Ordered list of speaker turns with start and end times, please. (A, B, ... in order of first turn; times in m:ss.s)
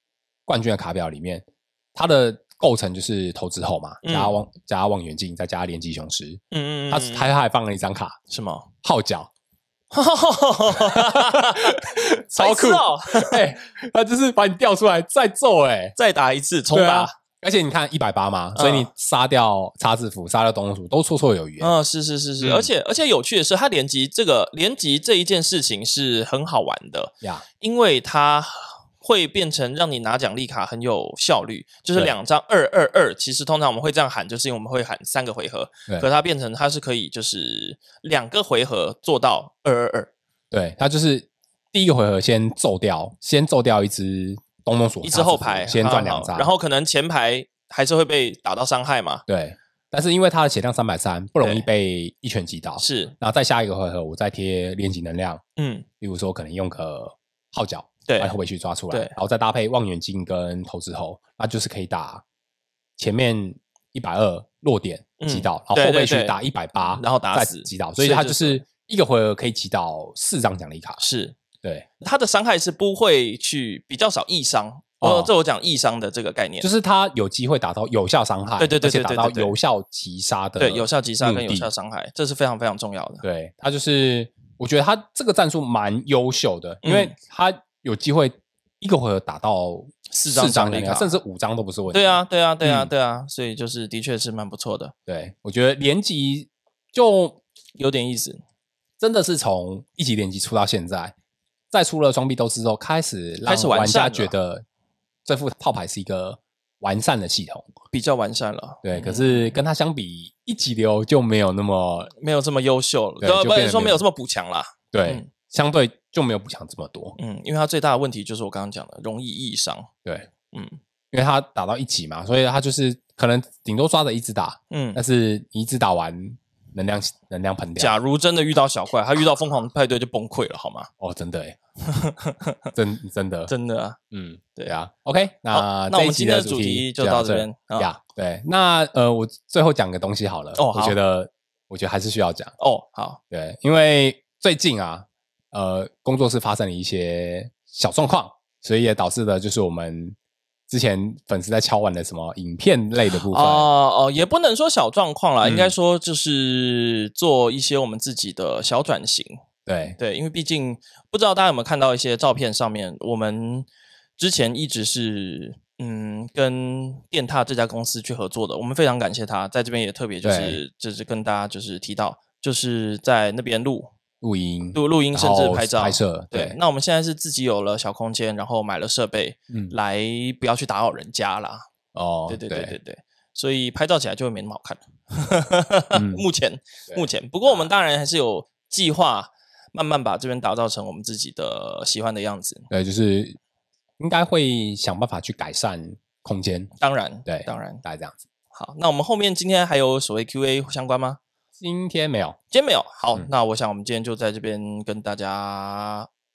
0:00.5-0:08.2 A
0:04.0-0:04.4 B
0:06.5-0:07.3 B
0:08.3-0:08.7 B
0:08.8-0:09.3 A
0:09.9-0:13.4 B
0:10.7-0:16.0 A
0:16.0-0:17.1 B
0:16.7-0:21.7 A
0:18.6-0:18.9 B
0:21.6-0:40.1 B
0:22.4-0:22.7 A
0:40.5-0:46.5 A
0:45.0-0:49.2 B
0:49.3-0:55.4 A
0:51.4-0:51.7 B
0:52.8-0:53.1 B
0:55.6-0:55.9 B
0:56.0-1:02.2 A
0:58.1-0:58.3 B
0:58.9-0:59.2 B
1:03.0-1:11.0 A
1:05.2-1:06.4 B
1:06.9-1:08.6 B
1:11.0-1:11.4 B
1:12.0-1:16.7 B
1:15.0-1:15.3 A
1:16.6-1:21.7 A
1:18.6-1:19.5 B
1:20.6-1:23.2 B
1:23.2-1:32.9 A
1:26.8-1:27.1 B
1:30.1-1:31.2 B
1:31.9-1:34.9 B
1:35.1-1:37.4 A
1:37.8-1:38.4 B
1:39.0-1:41.1 A
1:41.7-1:44.6 A
1:43.4-1:44.3 B
1:45.2-1:47.7 A
1:47.9-1:49.6 B
1:48.8-1:52.1 A
1:52.1-1:55.3 B
1:53.2-1:54.0 A
1:54.9-1:57.2 A
1:57.2-1:59.9 B
2:00.5-2:00.8 B
2:01.1-2:08.0 A
2:04.7-2:05.0 B
2:07.8-2:10.9 B
2:11.0-2:11.6 A
2:11.8-2:12.7 B
2:12.7-2:13.5 A
2:13.5-2:14.0 B
2:14.1-2:22.5 A
2:15.5-2:17.9 B
2:20.5-2:21.0 B
2:22.6-2:23.2 B
2:23.3-2:30.2 A
2:30.7-2:33.7 A
2:33.1-2:39.4 B
2:35.4-2:35.7 A
2:39.6-2:40.0 A
2:40.0-2:53.9 B
2:50.2-2:50.6 A
2:54.2-2:56.6 A
2:54.7-3:01.6 B
3:01.9-3:02.7 A
3:02.3-3:12.7 B
3:05.9-3:06.2 A
3:06.9-3:07.7 A
3:12.7-3:13.4 A
3:14.0-3:16.7 A
3:16.8-3:17.8 B
3:17.2-3:18.2 A
3:18.5-3:21.2 B
3:21.6-3:22.4 A
3:22.5-3:26.1 B